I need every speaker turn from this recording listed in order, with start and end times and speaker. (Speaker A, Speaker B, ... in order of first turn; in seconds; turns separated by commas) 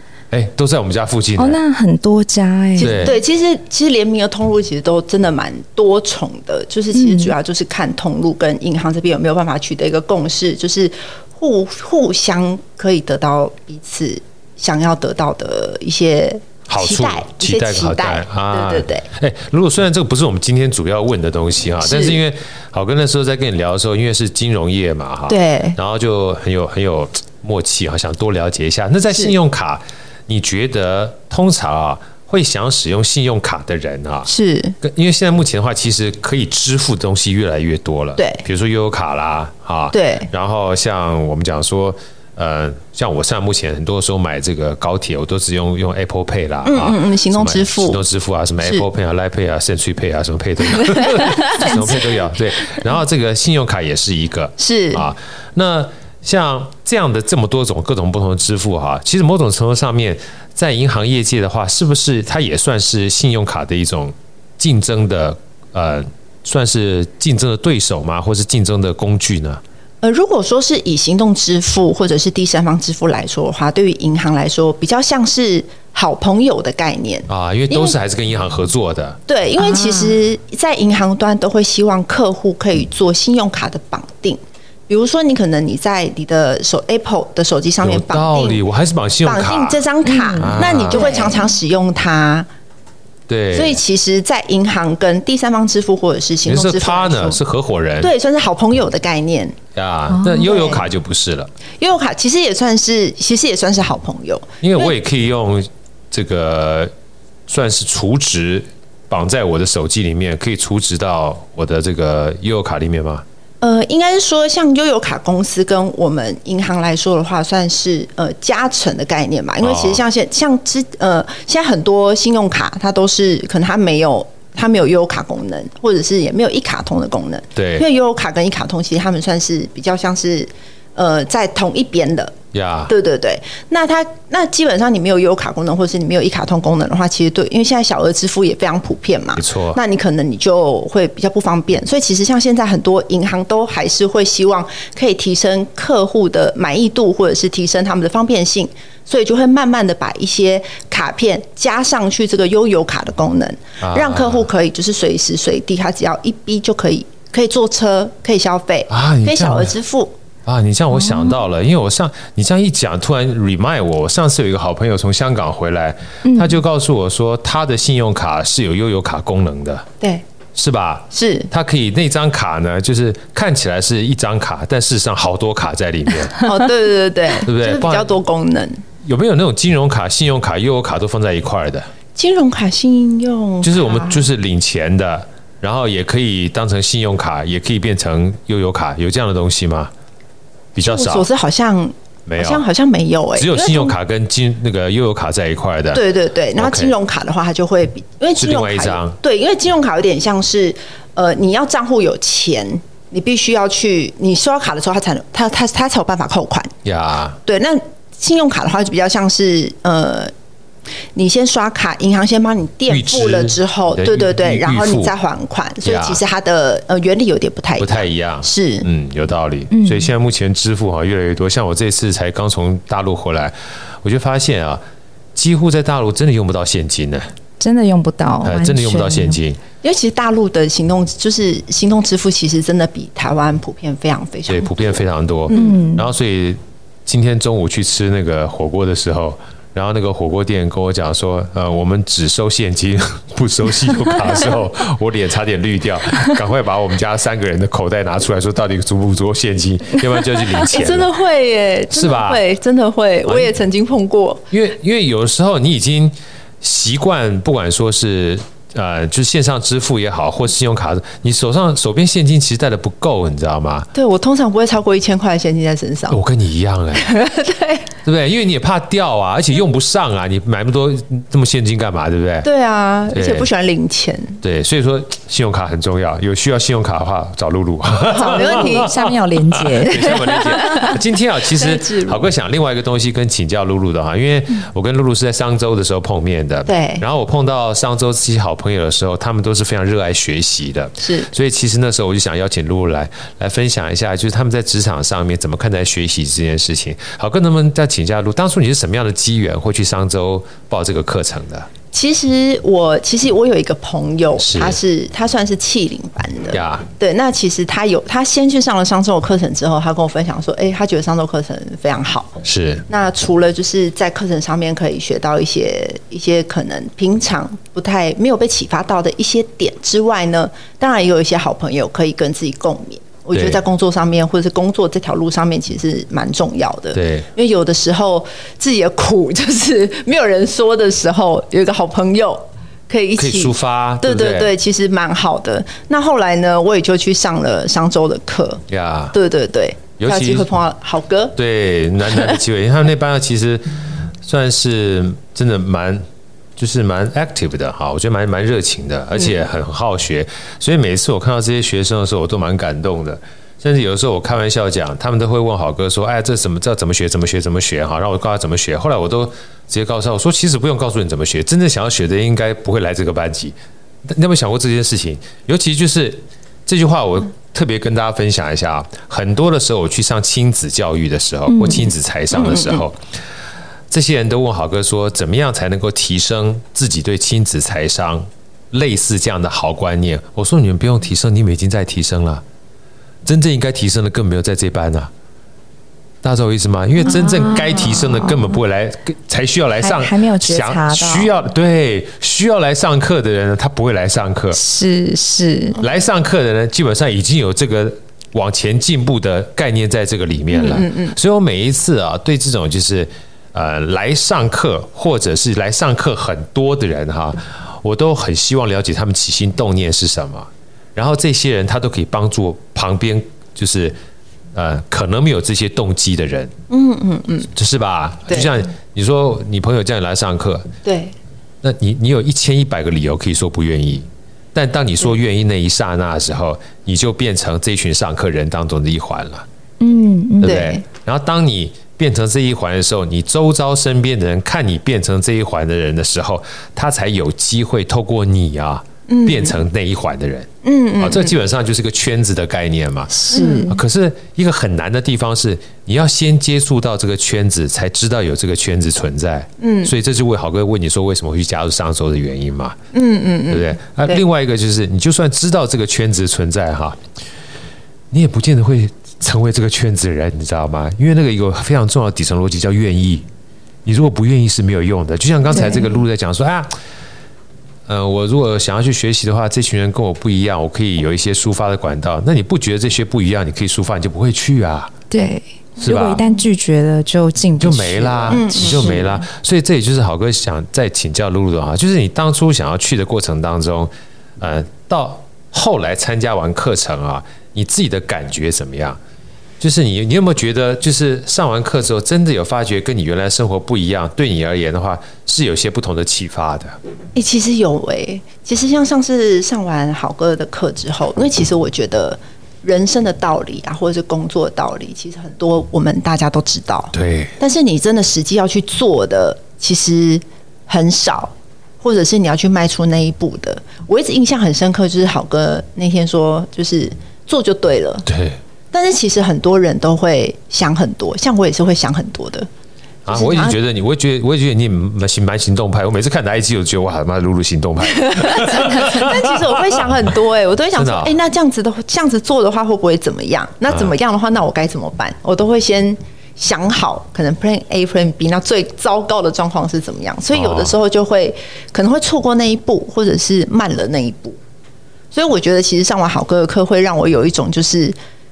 Speaker A: 0.3-1.6, Speaker B: 1.4-3.2, Speaker C: 2.8-19.1, Speaker A: 2.8-3.1, Speaker B: 6.9-7.3, Speaker A: 16.7-34.3, Speaker C: 21.8-22.2, Speaker C: 25.3-25.8, Speaker C: 34.2-34.8, Speaker A: 34.8-69.6, Speaker C: 38.2-38.4, Speaker C: 39.9-40.3, Speaker C: 46.6-48.0, Speaker C: 50.9-51.8, Speaker C: 54.6-55.1, Speaker C: 70.0-78.0, Speaker A: 77.3-79.2, Speaker C: 79.3-88.6, Speaker B: 79.6-80.2, Speaker A: 87.8-89.8, Speaker C: 89.2-92.5, Speaker B: 90.0-91.5, Speaker A: 90.3-91.2, Speaker A: 93.3-93.8, Speaker C: 93.5-97.4, Speaker A: 96.4-98.1, Speaker C: 98.0-99.5, Speaker A: 99.7-101.5, Speaker B: 100.1-100.5, Speaker C: 100.4-100.8, Speaker C: 101.8-104.9, Speaker A: 104.6-106.9, Speaker A: 107.5-113.2, Speaker C: 113.6-132.3, Speaker A: 119.6-120.0, Speaker A: 127.5-127.8, Speaker A: 132.5-132.9, Speaker C: 132.9-160.1, Speaker A: 139.3-139.8, Speaker A: 153.8-154.4, Speaker A: 158.9-159.7, Speaker A: 160.4-169.8, Speaker B: 161.0-161.4, Speaker B: 166.2-166.6, Speaker A: 170.5-176.4, Speaker C: 171.1-171.5, Speaker C: 176.4-178.8, Speaker A: 177.4-178.1, Speaker A: 179.0-181.9, Speaker C: 182.1-184.2, Speaker A: 183.6-189.9, Speaker A: 190.7-191.3, Speaker C: 190.8-193.9, Speaker A: 192.2-192.6, Speaker A: 193.3-196.0, Speaker C: 195.9-206.7, Speaker A: 196.6-196.9, Speaker A: 198.4-199.2, Speaker A: 206.8-207.4, Speaker C: 207.4-210.3, Speaker C: 211.1-218.8, Speaker A: 212.9-215.1, Speaker A: 215.8-216.2, Speaker A: 217.8-224.8, Speaker B: 219.7-220.1, Speaker A: 225.3-227.3, Speaker B: 227.6-229.4, Speaker A: 228.4-229.6, Speaker C: 229.8-234.9, Speaker A: 234.5-251.1, Speaker C: 235.5-235.8, Speaker B: 235.5-236.1, Speaker C: 250.7-254.4, Speaker A: 251.9-252.4, Speaker A: 253.2-253.5, Speaker A: 254.5-263.9, Speaker C: 263.9-266.2, Speaker A: 266.1-267.1, Speaker C: 267.0-267.9, Speaker A: 268.0-272.5, Speaker C: 272.4-274.4, Speaker A: 273.1-273.5, Speaker A: 274.4-301.7, Speaker C: 278.1-278.9, Speaker B: 278.3-280.9, Speaker C: 280.3-280.9, Speaker C: 281.5-282.2, Speaker C: 286.7-287.0, Speaker C: 291.0-291.3, Speaker C: 301.9-338.6, Speaker A: 304.4-304.8, Speaker A: 306.5-306.9, Speaker A: 312.4-312.8, Speaker A: 323.3-323.6, Speaker A: 326.9-327.3, Speaker A: 333.2-334.5, Speaker A: 338.7-339.1, Speaker C: 339.1-341.4, Speaker A: 340.0-340.5, Speaker A: 341.4-346.0, Speaker A: 346.6-373.0, Speaker B: 371.5-371.9, Speaker C: 372.3-372.8, Speaker A: 373.9-382.4, Speaker A: 383.2-385.1, Speaker A: 386.2-394.6, Speaker B: 387.0-388.6, Speaker B: 389.8-391.3, Speaker B: 394.5-395.8, Speaker A: 395.8-413.9, Speaker C: 400.5-401.1, Speaker A: 414.5-416.5, Speaker C: 416.7-417.5, Speaker A: 417.5-420.7, Speaker C: 418.3-418.5, Speaker C: 420.8-421.1, Speaker A: 421.6-429.4, Speaker B: 429.8-430.6, Speaker A: 430.4-452.8, Speaker C: 430.4-430.8, Speaker C: 439.1-439.6, Speaker C: 440.6-441.4, Speaker B: 443.1-443.8, Speaker C: 443.3-443.7, Speaker C: 449.6-449.9, Speaker C: 452.9-454.2, Speaker A: 453.5-457.0, Speaker A: 458.1-463.3, Speaker A: 463.8-466.7, Speaker B: 465.5-465.9, Speaker A: 467.9-474.9, Speaker B: 475.1-479.2, Speaker A: 475.8-476.2, Speaker A: 477.6-489.0, Speaker C: 478.3-479.2, Speaker A: 489.6-496.8, Speaker C: 497.1-518.0, Speaker A: 506.9-507.3, Speaker A: 518.0-518.4, Speaker C: 518.7-522.5, Speaker A: 523.0-529.9, Speaker C: 523.1-523.6, Speaker C: 528.0-544.4, Speaker A: 530.7-531.1, Speaker A: 540.3-540.8, Speaker C: 545.1-548.0